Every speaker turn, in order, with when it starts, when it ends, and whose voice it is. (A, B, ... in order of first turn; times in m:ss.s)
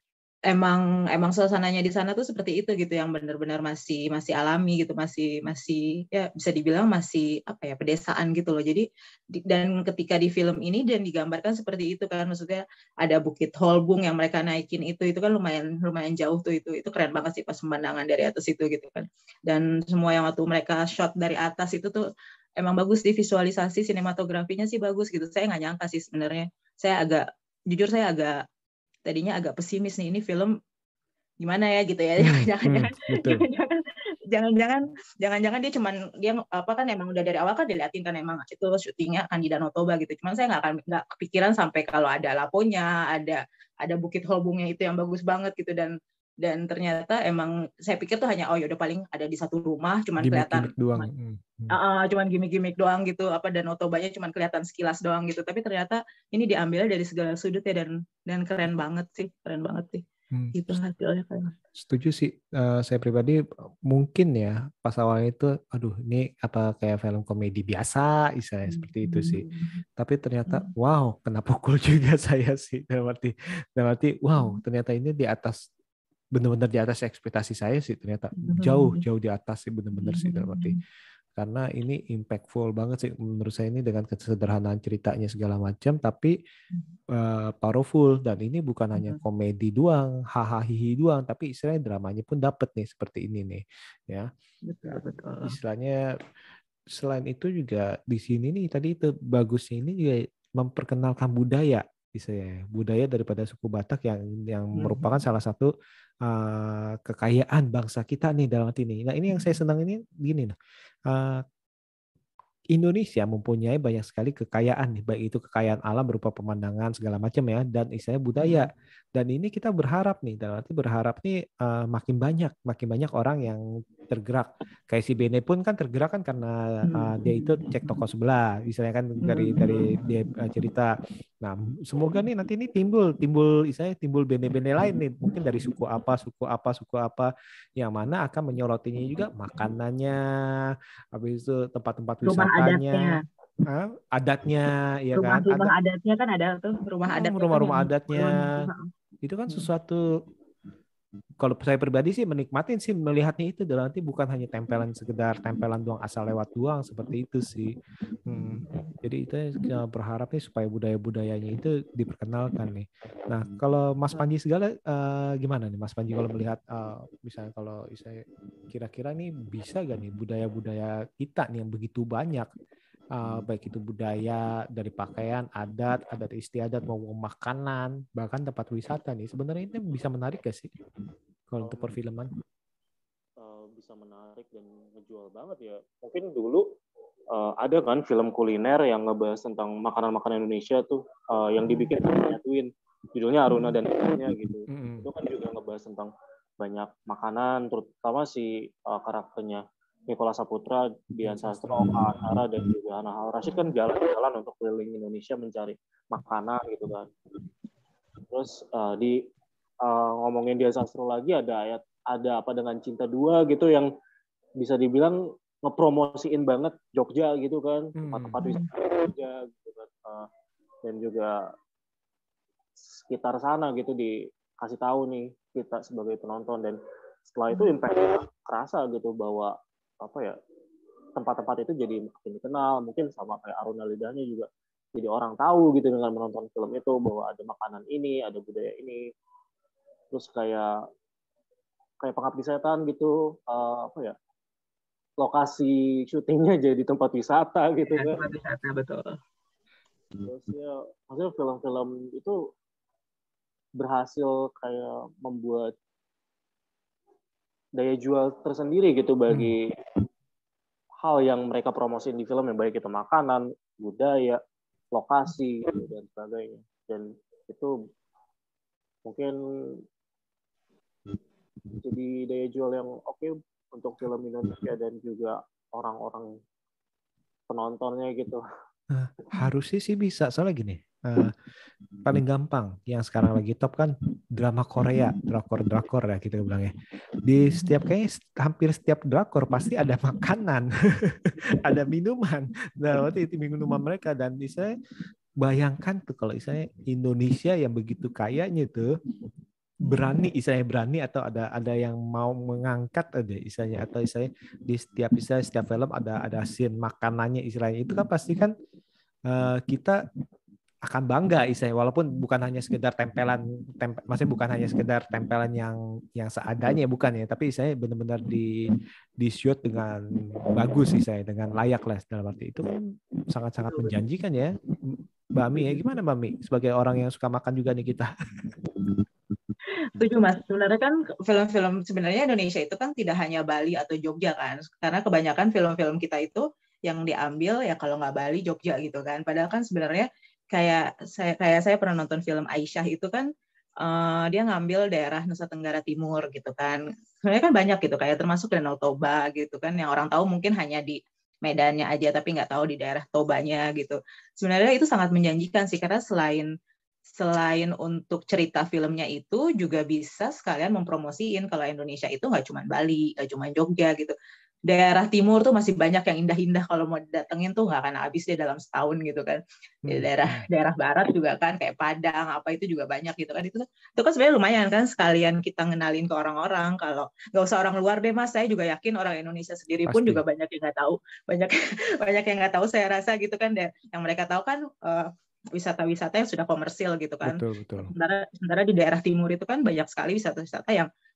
0:00.5-0:22.0 A
0:22.6-0:28.4 A
0:29.1-0:30.5 A
0:31.4-0:51.1 A
0:32.2-0:33.4 B
0:50.2-0:51.8 B
0:51.7-1:01.6 A
1:01.8-1:09.4 B
1:08.7-1:09.8 A
1:10.0-1:15.6 B
1:16.4-1:20.8 B
1:18.4-1:19.0 A
1:20.0-1:20.8 A
1:21.4-1:26.4 B
1:27.1-1:34.3 B
1:34.6-1:35.6 A
1:35.4-1:36.0 B
1:36.9-1:45.7 B
1:44.8-1:45.0 A
1:46.2-1:50.5 B
1:51.1-1:51.4 B
1:52.7-2:20.2 B
1:58.4-1:58.7 A
2:06.9-2:08.0 A
2:09.2-2:09.9 A
2:21.1-2:23.2 B
2:22.2-2:23.2 A
2:23.7-2:25.7 B
2:25.2-2:28.9 A
2:27.1-2:28.5 B
2:29.2-2:30.0 B
2:31.4-2:37.8 B
2:38.3-2:52.5 B
2:53.2-3:00.7 B
3:01.5-3:02.3 B
3:01.6-3:02.0 C
3:03.4-3:06.6 C
3:07.3-3:27.1 C
3:14.7-3:15.1 B
3:21.2-3:22.4 B
3:28.3-3:29.2 C
3:29.8-3:33.9 C
3:34.6-3:40.3 C
3:38.0-3:38.4 B
3:38.4-3:38.7 A
3:40.8-3:41.4 C
3:42.8-3:50.4 C
3:51.2-3:59.0 C
4:00.1-4:00.7 C
4:02.0-4:04.2 C
4:05.2-4:08.2 C
4:07.9-4:09.1 A
4:10.2-4:12.4 C
4:13.8-4:15.7 C
4:17.8-4:19.7 C
4:19.3-4:19.6 B
4:21.0-4:24.4 C
4:24.9-4:27.7 C
4:29.1-4:29.4 C
4:31.8-4:36.3 C
4:37.5-4:38.4 C
4:38.9-4:41.3 B
4:42.0-4:46.7 B
4:47.2-4:54.7 B
4:55.4-4:58.9 B
4:59.8-5:08.5 B
5:09.3-5:10.0 B
5:10.9-5:18.7 B
5:19.2-5:22.8 B
5:23.3-5:28.1 B
5:30.0-5:43.3 A
5:43.8-5:56.5 A
5:57.2-6:04.1 A
6:04.7-6:30.9 A
6:09.9-6:10.4 B
6:19.9-6:20.2 B
6:27.3-6:27.9 B